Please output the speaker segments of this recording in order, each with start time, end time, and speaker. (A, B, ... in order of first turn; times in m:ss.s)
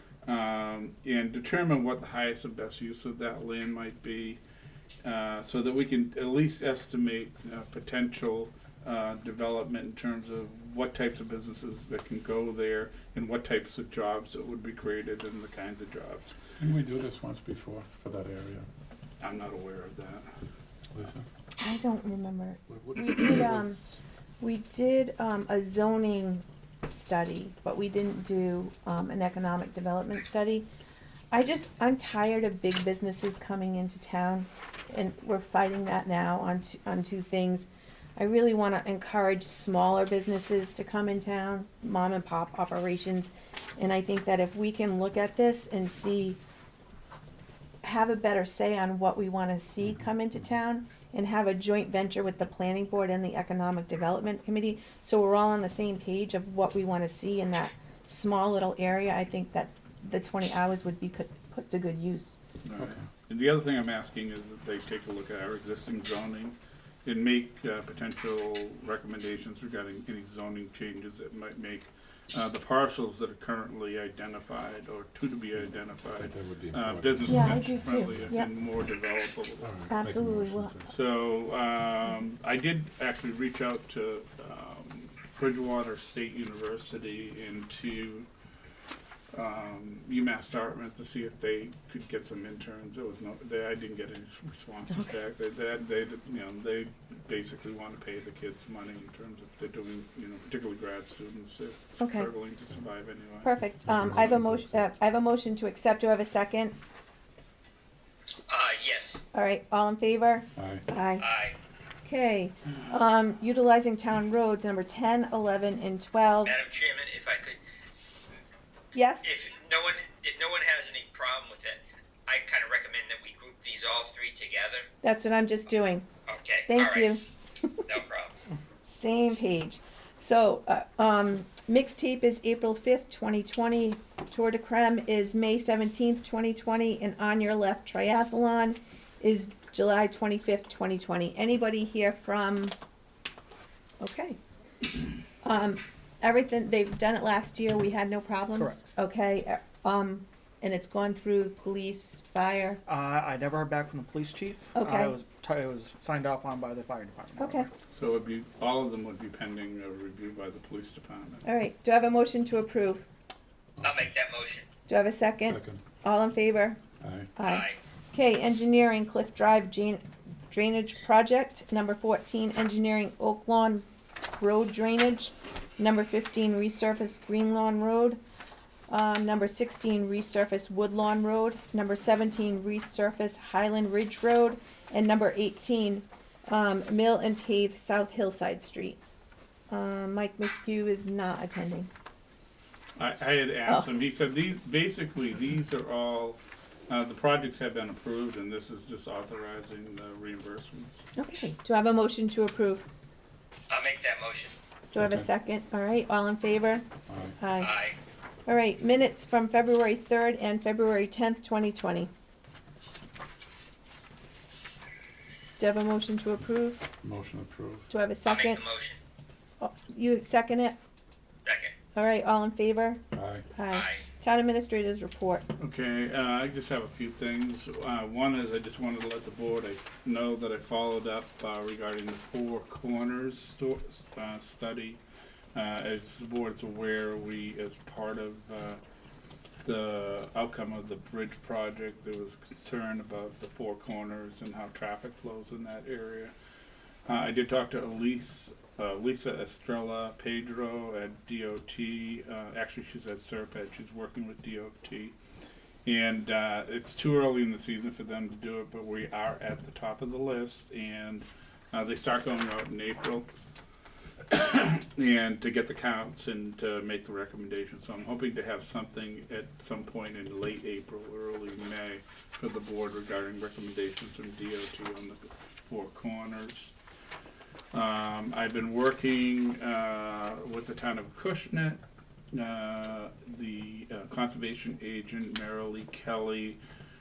0:00.2-0:04.4 A
0:05.0-0:16.3 A
0:16.6-0:18.7 B
0:19.2-0:20.3 A
0:20.9-0:21.2 B
0:21.6-0:23.8 C
0:22.7-0:24.0 B
0:24.4-0:30.7 C
0:31.3-0:46.4 C
0:47.8-1:02.4 C
1:02.6-1:19.8 A
1:02.8-1:03.1 B
1:16.1-1:18.4 B
1:17.2-1:18.5 C
1:19.6-1:20.9 B
1:19.9-1:20.7 C
1:20.9-1:28.3 A
1:29.3-1:43.5 A
1:42.0-1:42.3 C
1:43.4-1:46.8 C
1:43.8-1:44.8 B
1:48.5-1:49.2 D
1:49.3-1:51.2 C
1:50.6-1:50.8 B
1:51.2-1:51.5 D
1:52.0-1:56.6 C
1:56.4-1:57.6 D
1:58.9-1:59.4 C
1:59.2-2:04.9 D
2:05.0-2:06.0 C
2:06.3-2:07.2 D
2:06.7-2:07.2 C
2:07.8-2:08.3 D
2:08.9-2:22.8 C
2:24.0-2:24.4 C
2:25.4-2:32.8 C
2:28.5-2:28.9 E
2:32.8-2:37.7 E
2:34.7-2:35.1 C
2:37.4-2:37.7 C
2:37.9-2:41.4 A
2:41.4-2:43.0 C
2:43.8-2:44.6 D
2:44.9-2:46.8 C
2:45.4-2:45.8 B
2:47.0-2:47.3 B
2:47.4-2:53.8 C
2:47.4-2:47.8 D
2:54.4-2:58.2 C
2:58.9-3:09.0 C
3:09.7-3:11.9 C
3:13.0-3:21.0 A
3:21.2-3:22.9 C
3:23.7-3:24.6 D
3:24.9-3:25.3 B
3:24.9-3:26.8 C
3:27.1-3:27.4 B
3:27.4-3:27.7 C
3:27.6-3:28.0 D
3:28.4-3:32.1 C
3:35.6-3:36.9 C
3:37.0-3:37.9 B
3:37.9-3:38.6 C
3:38.2-3:39.0 D
3:39.6-3:40.8 C
3:41.4-3:41.7 D
3:41.9-3:43.0 C
3:43.1-3:43.5 B
3:43.5-3:45.4 C
3:43.7-3:44.0 D
3:45.6-3:55.0 A
3:55.5-3:58.8 A
3:59.6-4:06.3 A
4:07.0-4:15.1 A
4:15.8-4:23.3 A
4:24.3-4:36.7 A
4:37.7-4:41.8 A
4:42.3-4:46.6 A